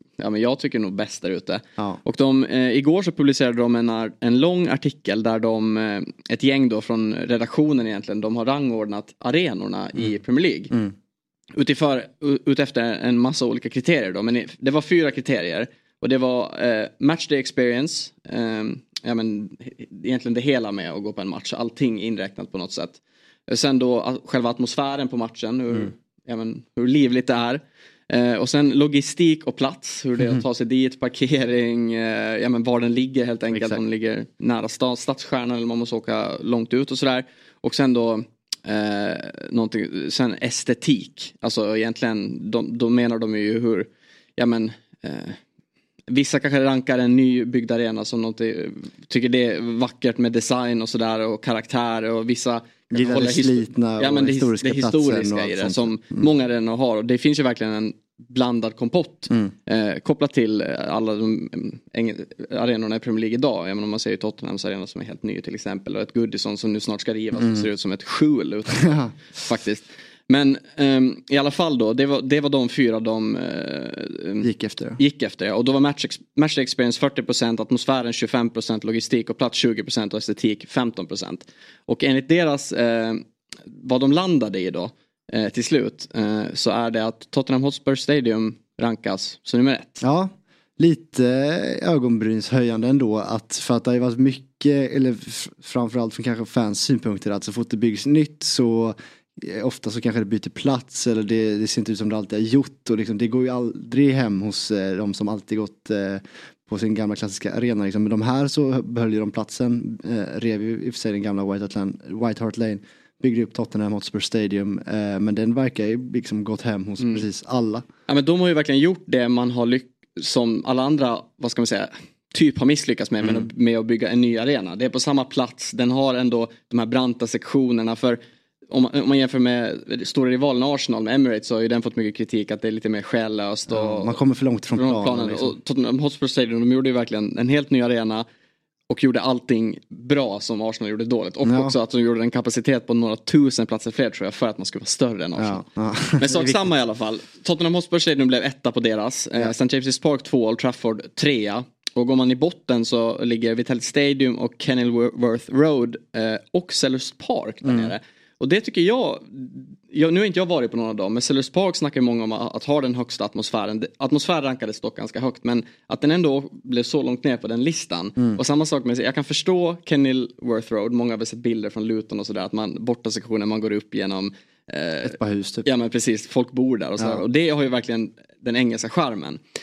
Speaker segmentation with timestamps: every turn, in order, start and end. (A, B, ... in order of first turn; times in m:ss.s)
0:00.2-0:10.7 A
0:11.5-0:45.4 A
0:33.5-0:33.8 B
0:46.1-1:30.0 A
0:52.9-0:56.3 B
1:07.4-1:07.7 B
1:08.8-1:09.1 B
1:14.4-1:15.0 B
1:30.0-1:57.9 B
1:58.1-2:14.2 A
2:13.7-2:15.5 B
2:14.7-2:18.3 A
2:18.9-2:25.6 A
2:21.4-2:21.8 B
2:25.4-2:26.7 B
2:26.2-2:59.4 A
2:37.6-2:37.9 B
2:55.0-2:55.6 B